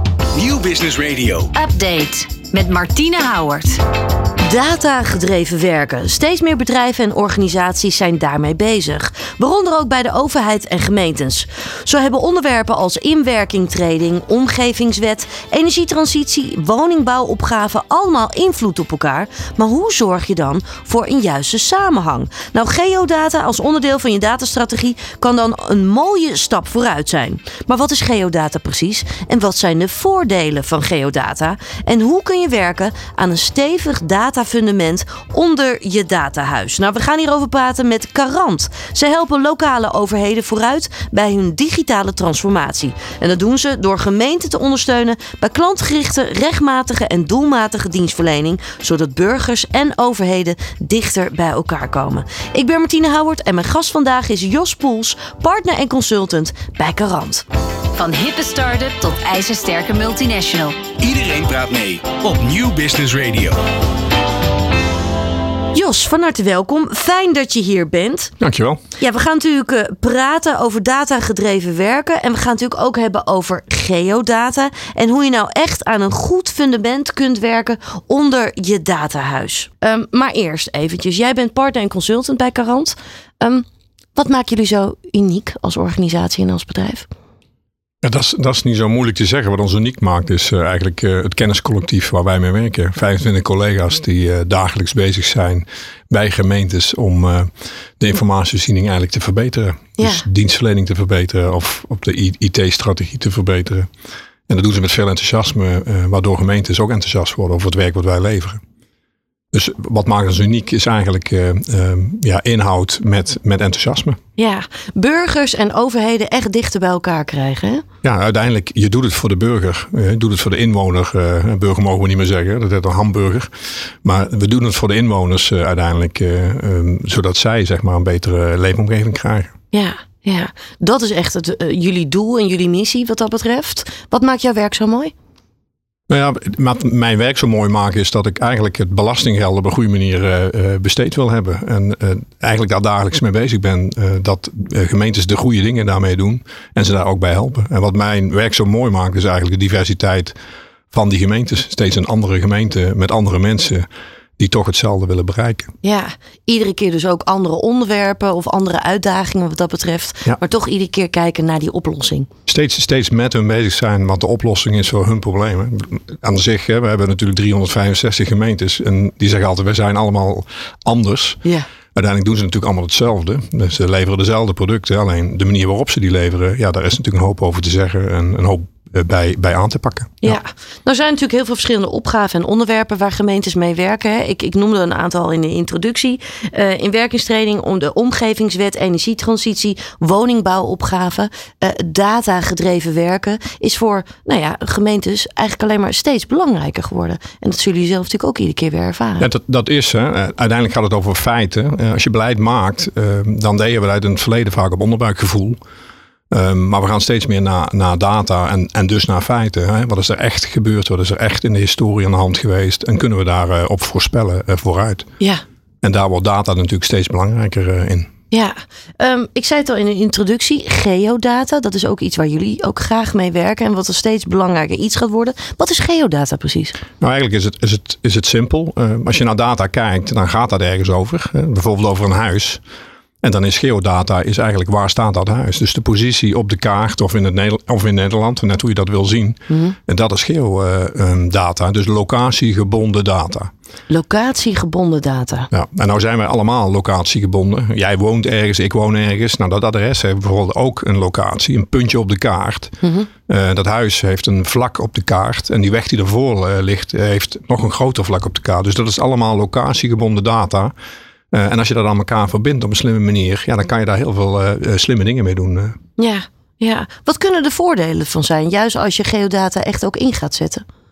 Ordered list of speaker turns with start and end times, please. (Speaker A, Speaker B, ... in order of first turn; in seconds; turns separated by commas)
Speaker A: 0.3-1.5, Speaker B: 1.5-3.8, Speaker C: 4.4-57.4, Speaker B: 57.9-60.8, Speaker A: 61.0-63.6, Speaker C: 65.7-68.3, Speaker D: 68.4-68.8, Speaker C: 69.0-83.6, Speaker C: 84.2-87.1, Speaker D: 88.0-103.9, Speaker C: 100.0-100.2, Speaker D: 104.5-108.6, Speaker D: 109.5-114.2, Speaker C: 114.4-117.8, Speaker D: 118.0-123.5, Speaker D: 124.0-129.5, Speaker C: 129.7-135.1, Speaker D: 136.1-150.3, Speaker D: 150.9-153.9, Speaker D: 154.4-155.7, Speaker C: 155.8-162.3, Speaker D: 162.5-171.4, Speaker D: 171.9-180.4, Speaker C: 180.2-199.3, Speaker D: 199.2-205.6, Speaker D: 206.3-215.1, Speaker D: 215.8-218.1, Speaker C: 218.3-226.8, Speaker D: 227.0-232.6, Speaker D: 233.2-243.5, Speaker C: 239.5-239.8, Speaker C: 243.9-245.5, Speaker D: 245.5-252.8, Speaker C: 252.8-253.1, Speaker D: 253.3-260.7, Speaker D: 261.3-265.8, Speaker C: 266.0-270.6